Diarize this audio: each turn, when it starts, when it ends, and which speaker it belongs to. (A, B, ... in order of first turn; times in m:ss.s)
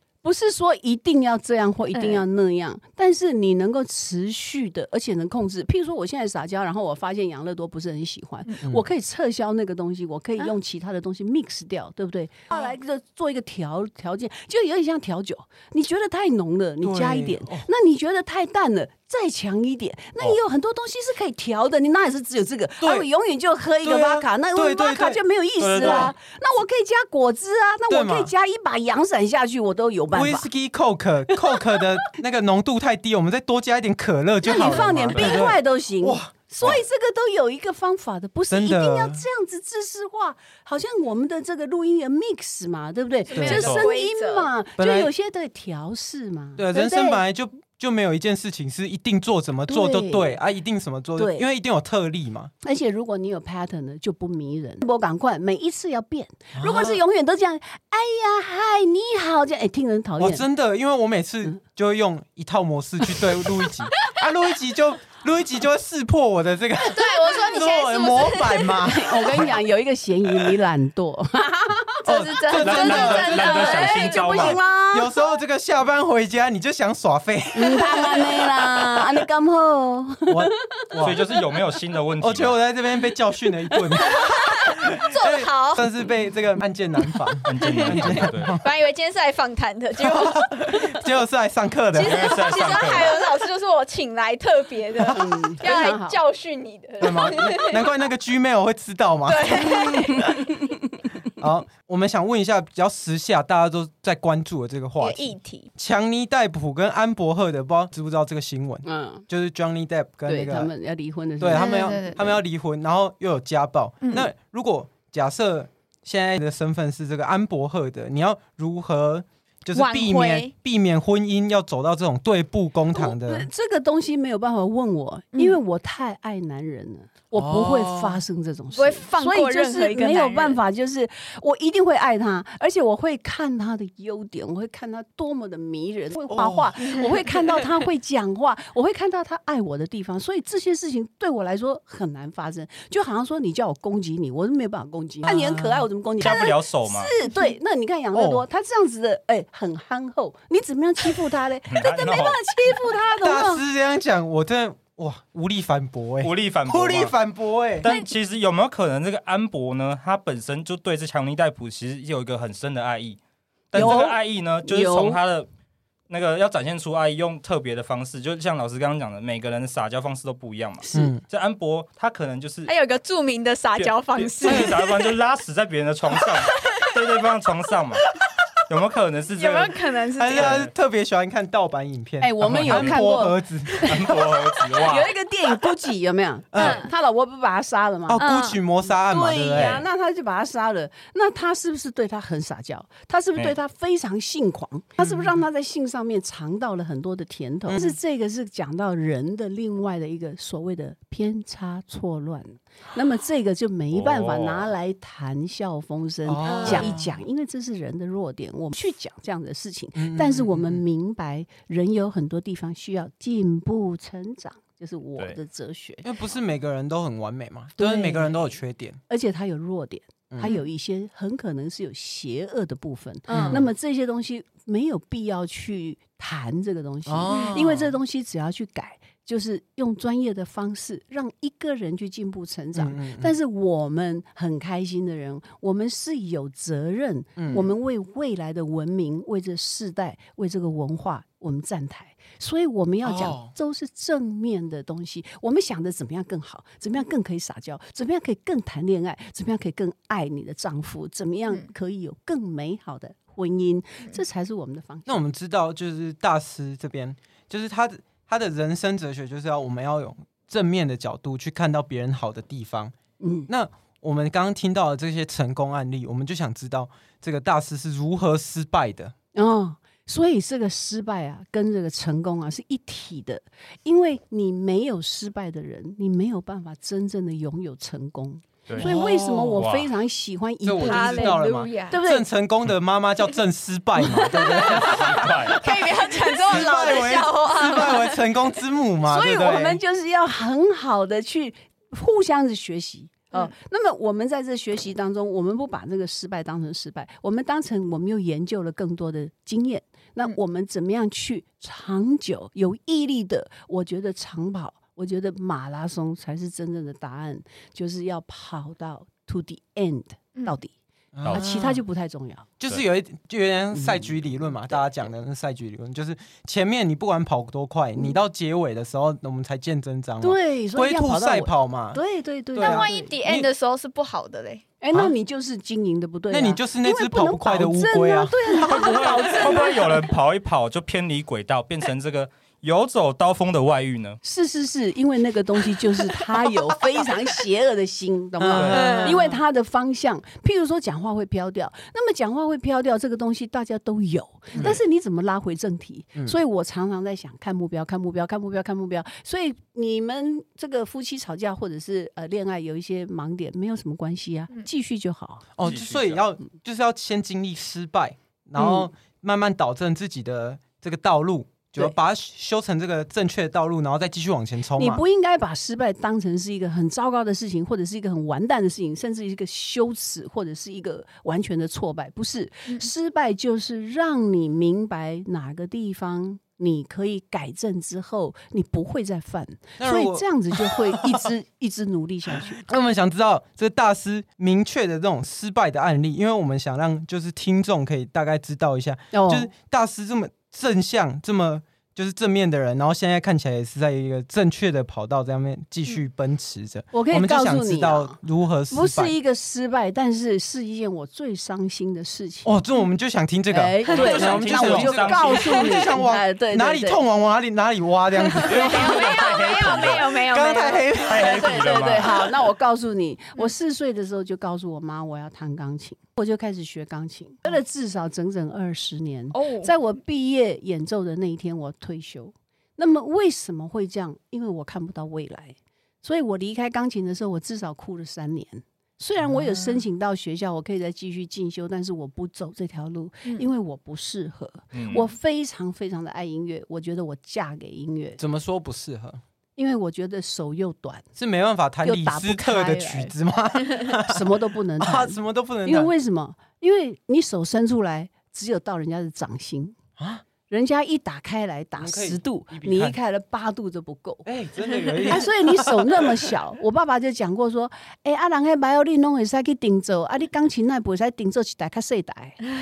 0:00.2-0:30.5 A
0:01.9-0:02.2 B
0:16.8-0:17.6 C
0:22.8-0:23.1 C
0:23.8-0:25.2 C
0:25.6-0:26.1 D
0:25.8-0:26.1 C
0:27.9-0:28.3 C
0:30.1-0:36.7 C
0:31.5-0:31.8 A
0:34.4-0:47.2 A
0:38.5-0:39.2 C
0:43.3-0:44.5 B
0:43.3-0:43.7 C
0:43.5-0:43.8 D
0:44.8-0:45.1 C
0:46.6-0:52.5 C
0:49.7-0:50.4 A
0:51.2-0:51.4 A
0:52.6-1:00.4 A
0:56.5-0:57.0 C
1:00.2-1:09.4 C
1:06.8-1:08.9 B
1:08.8-1:12.0 A
1:12.0-1:14.7 B
1:12.0-1:19.2 C
1:12.5-1:14.6 D
1:13.8-1:15.1 A
1:17.5-1:20.5 A
1:20.3-1:21.2 C
1:21.0-1:22.6 D
1:22.2-1:28.6 C
1:24.0-1:25.9 B
1:27.4-1:28.6 D
1:27.6-1:31.0 B
1:30.0-1:32.4 C
1:31.9-1:37.8 B
1:32.0-1:33.2 D
1:35.0-1:35.2 C
1:35.1-1:36.2 A
1:37.0-1:40.5 C
1:39.2-1:40.6 B
1:41.4-1:50.7 C
1:45.0-1:45.7 B
1:48.8-1:49.2 A
1:50.3-1:52.2 A
1:51.4-2:03.5 C
1:51.5-1:52.2 B
1:54.0-1:54.3 B
1:59.7-2:00.5 B
2:02.9-2:33.6 A
2:05.3-2:05.6 B
2:07.3-2:08.2 C
2:08.7-2:10.6 B
2:16.3-2:16.8 C
2:25.2-2:25.9 C
2:26.2-2:27.1 D
2:28.1-2:28.4 C
2:31.7-2:32.4 D
2:33.2-2:37.9 C
2:36.2-2:37.2 D
2:37.8-2:43.2 D
2:43.7-2:45.5 D
2:43.7-2:45.2 A
2:46.1-2:52.7 D
2:50.9-2:51.2 C
2:52.7-2:55.1 B
2:53.8-2:58.1 D
2:54.4-2:54.8 C
2:58.7-3:00.7 D
2:59.4-3:00.6 B
3:00.2-3:04.2 C
3:02.2-3:04.1 A
3:02.4-3:03.0 D
3:03.8-3:05.1 D
3:04.8-3:08.2 A
3:06.5-3:06.9 C
3:06.6-3:06.9 B
3:08.1-3:09.8 C
3:08.2-3:08.6 B
3:08.9-3:36.0 A
3:09.5-3:09.8 B
3:15.0-3:15.4 C
3:17.7-3:18.0 C
3:23.9-3:24.7 D
3:26.2-3:27.1 C
3:26.6-3:26.8 B
3:30.0-3:30.8 C
3:36.0-3:39.0 C
3:37.8-3:38.4 A
3:39.1-4:15.2 A
3:40.3-3:40.6 C
3:43.3-3:43.6 B
3:43.3-3:43.7 C
3:47.1-3:47.9 C
3:47.3-3:47.6 B
3:52.8-3:53.3 C
3:57.4-3:57.6 C
4:03.0-4:03.5 C
4:15.0-4:22.9 C
4:23.2-4:23.5 A
4:23.5-4:29.1 C
4:29.3-4:42.2 A
4:38.8-4:39.7 C
4:39.6-4:39.9 D
4:40.6-4:49.8 C
4:40.8-4:42.0 B
4:44.0-4:48.2 B
4:44.5-4:45.6 D
4:49.0-5:10.7 A
5:11.1-5:11.8 C
5:11.3-5:12.5 A
5:12.6-5:22.0 C
5:13.7-5:14.1 A
5:20.2-5:23.1 A
5:22.5-5:23.5 C
5:22.6-5:24.6 B
5:24.8-5:30.1 A
5:26.3-5:28.7 C
5:28.6-5:34.2 D
5:34.2-5:55.5 A
5:38.4-5:39.4 C
5:38.6-5:39.0 D
5:38.7-5:39.2 B
5:44.5-5:44.8 C
5:55.6-6:05.0 C
5:55.6-5:56.2 D
5:58.6-5:58.9 A
6:04.8-6:22.6 A
6:19.8-6:21.3 C
6:22.5-6:39.1 C
6:29.1-6:29.5 A
6:36.9-6:38.2 A
6:38.7-6:42.5 A
6:42.4-6:51.6 C
6:43.5-6:47.0 A
6:43.9-6:45.6 D
6:48.3-6:51.0 B
6:48.4-6:50.2 D
6:51.0-7:18.2 A
6:51.0-6:52.3 D
6:59.3-6:59.7 B
7:09.2-7:09.8 C
7:14.7-7:15.0 D
7:18.2-7:19.2 C
7:19.6-7:21.0 A
7:21.2-7:24.2 C
7:21.8-7:23.1 A
7:24.0-7:29.8 A
7:24.8-7:25.9 C
7:30.0-7:30.2 C
7:30.5-7:34.3 A
7:31.8-7:33.0 C
7:34.2-7:36.1 C
7:35.0-7:42.4 A